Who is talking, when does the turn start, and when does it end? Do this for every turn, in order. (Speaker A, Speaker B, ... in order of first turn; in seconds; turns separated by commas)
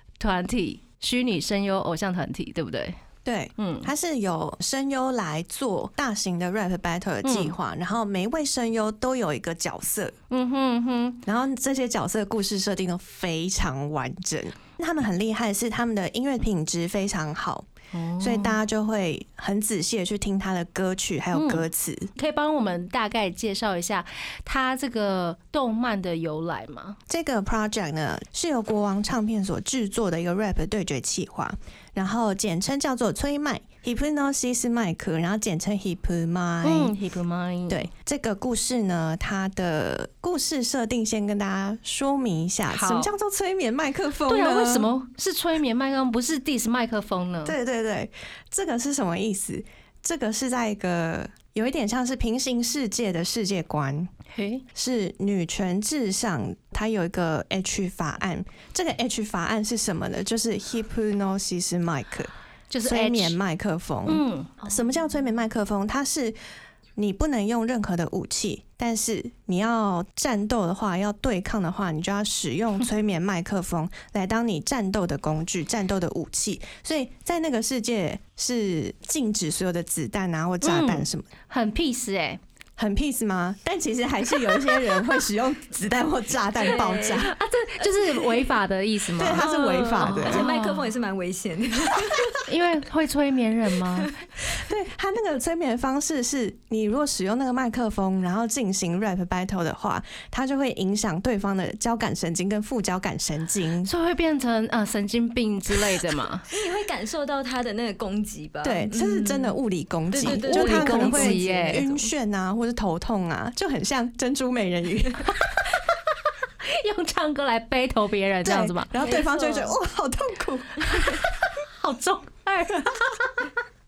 Speaker A: 0.2-3.0, Speaker B: 3.2-10.1, Speaker A: 3.6-3.9, Speaker A: 7.2-7.5, Speaker A: 10.3-11.2, Speaker B: 11.2-17.7, Speaker A: 17.9-18.6, Speaker B: 18.2-22.1, Speaker A: 21.3-21.6, Speaker A: 22.1-27.0, Speaker B: 27.1-36.9, Speaker A: 36.6-37.9, Speaker B: 37.7-44.9, Speaker A: 42.7-43.1, Speaker A: 44.3-47.5, Speaker B: 47.4-54.1, Speaker A: 54.3-54.6, Speaker B: 54.7-62.3, Speaker A: 62.7-63.4, Speaker B: 62.8-66.4, Speaker A: 64.0-64.6, Speaker B: 67.0-81.2, Speaker A: 80.6-82.4, Speaker B: 82.8-87.3, Speaker C: 86.6-87.3, Speaker A: 87.2-89.5, Speaker B: 89.1-90.5, Speaker C: 89.3-92.4, Speaker A: 90.0-90.9, Speaker A: 92.4-94.1, Speaker B: 94.5-103.9, Speaker A: 103.8-106.5, Speaker C: 106.5-109.6, Speaker B: 108.6-115.4, Speaker C: 110.1-112.1, Speaker A: 110.2-111.8, Speaker A: 116.6-118.9, Speaker B: 118.4-121.2, Speaker C: 119.0-119.8, Speaker A: 120.9-123.4